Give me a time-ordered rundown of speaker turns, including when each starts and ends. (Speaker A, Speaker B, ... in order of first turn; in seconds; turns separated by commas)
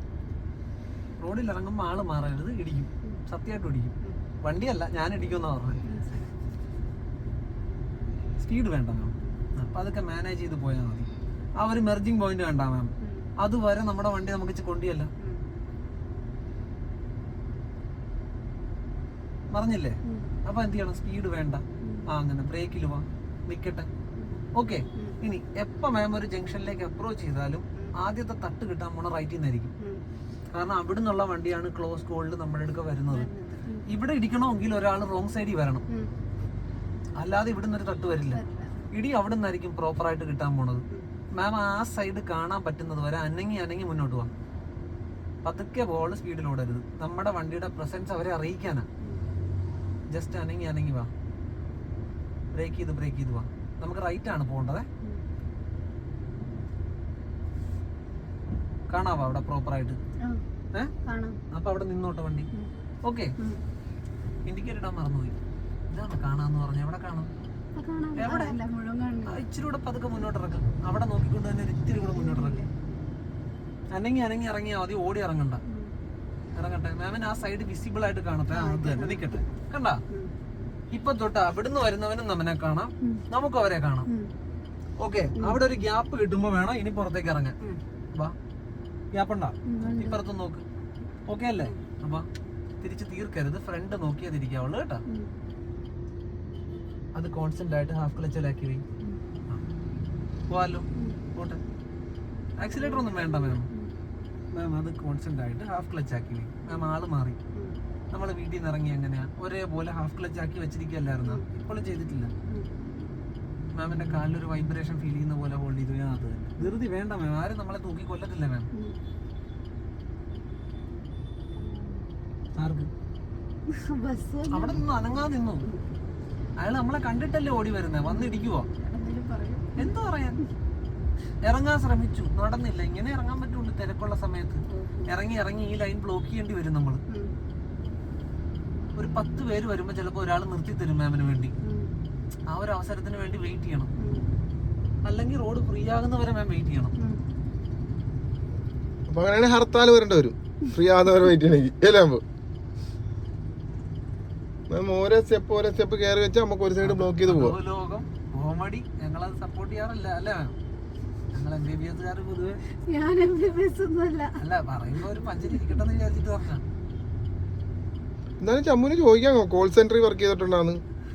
Speaker A: 1.2-5.8, Speaker B: 5.8-6.3, Speaker A: 8.4-15.1, Speaker B: 13.0-13.3, Speaker A: 19.5-23.9, Speaker B: 21.8-22.1, Speaker B: 24.2-25.2, Speaker A: 24.5-29.7, Speaker B: 29.8-30.0, Speaker A: 30.5-33.3, Speaker B: 33.1-33.9, Speaker A: 33.9-35.8, Speaker A: 37.2-40.8, Speaker B: 38.3-38.8, Speaker A: 41.3-44.3, Speaker A: 45.4-48.9, Speaker A: 50.1-51.1, Speaker A: 52.5-54.9, Speaker A: 58.9-60.0, Speaker B: 61.0-61.4, Speaker A: 61.5-62.5, Speaker A: 63.0-63.3, Speaker A: 64.5-65.3, Speaker A: 65.9-67.3, Speaker B: 67.7-69.4, Speaker A: 68.2-68.5, Speaker A: 69.2-72.6, Speaker B: 71.9-72.7, Speaker A: 73.9-75.6, Speaker B: 75.7-75.9, Speaker A: 76.5-80.0, Speaker B: 78.5-79.3, Speaker A: 80.9-84.1, Speaker B: 84.1-84.3, Speaker A: 85.0-87.5, Speaker A: 89.1-90.6, Speaker B: 89.7-90.2, Speaker A: 91.3-92.3, Speaker A: 92.8-95.0, Speaker A: 97.1-98.8, Speaker B: 99.0-99.2, Speaker A: 100.5-101.6, Speaker B: 100.9-101.2, Speaker A: 102.6-103.7, Speaker B: 102.7-103.9, Speaker A: 104.5-107.4, Speaker B: 106.7-106.9, Speaker A: 108.1-112.3, Speaker A: 113.8-118.7, Speaker B: 121.5-122.1, Speaker A: 122.6-122.9, Speaker B: 123.7-125.8, Speaker A: 124.5-125.7, Speaker A: 126.6-128.7, Speaker B: 128.1-130.4, Speaker A: 129.8-130.4, Speaker A: 131.4-137.0, Speaker B: 134.7-135.1, Speaker B: 137.1-137.3, Speaker A: 138.9-141.5, Speaker B: 141.6-142.0, Speaker A: 142.5-143.9, Speaker B: 144.0-144.2, Speaker A: 145.0-146.9, Speaker C: 149.1-152.2, Speaker C: 154.7-157.6, Speaker A: 156.8-160.5, Speaker A: 161.3-162.6, Speaker B: 162.8-164.4, Speaker A: 164.4-166.6, Speaker B: 165.3-165.8, Speaker C: 168.4-170.8